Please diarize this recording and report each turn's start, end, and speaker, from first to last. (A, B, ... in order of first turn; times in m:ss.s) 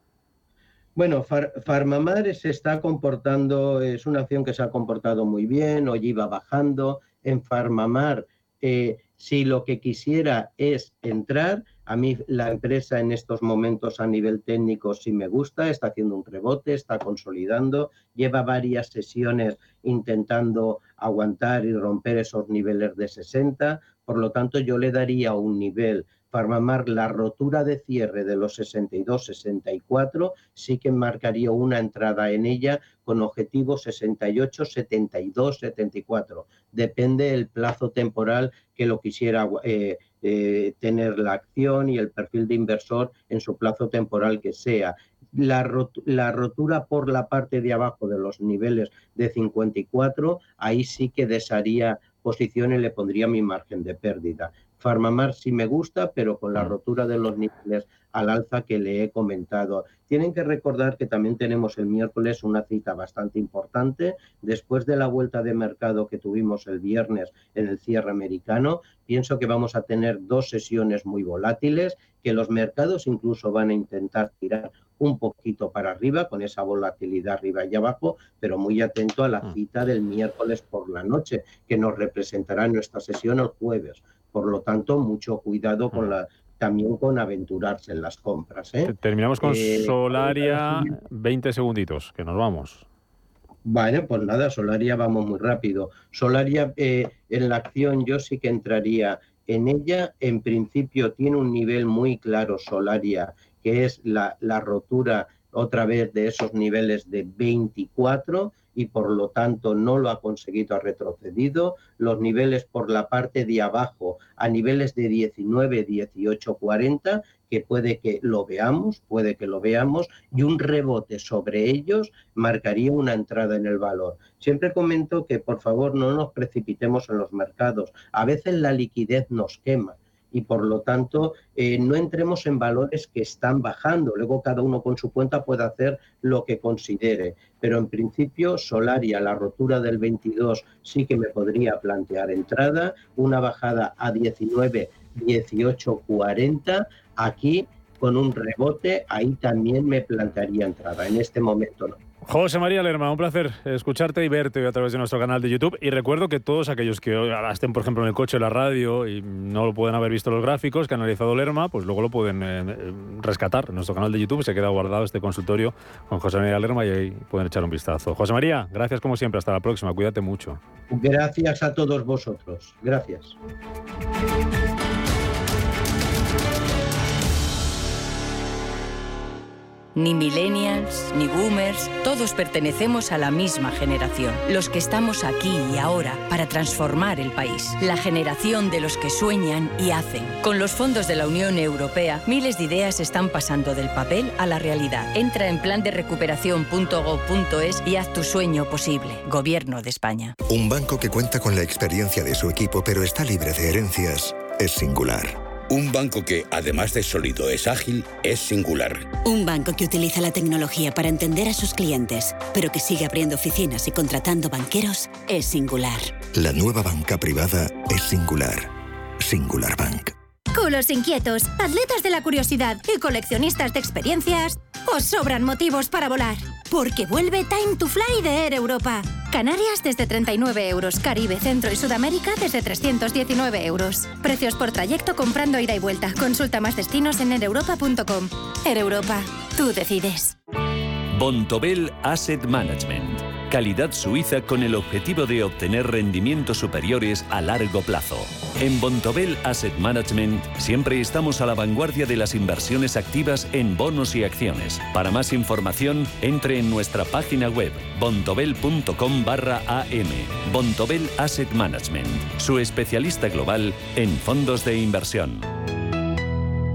0:01.0-1:31.0 A
1:28.8-1:32.8 B
1:33.6-2:32.0 A
2:32.2-2:50.6 B
2:50.9-2:53.4 A
3:00.0-3:20.3 C
3:20.5-3:25.4 D
3:25.7-3:29.2 E
3:29.2-3:36.2 F
3:36.3-3:40.1 D
3:40.5-4:00.4 G
4:01.1-4:25.5 H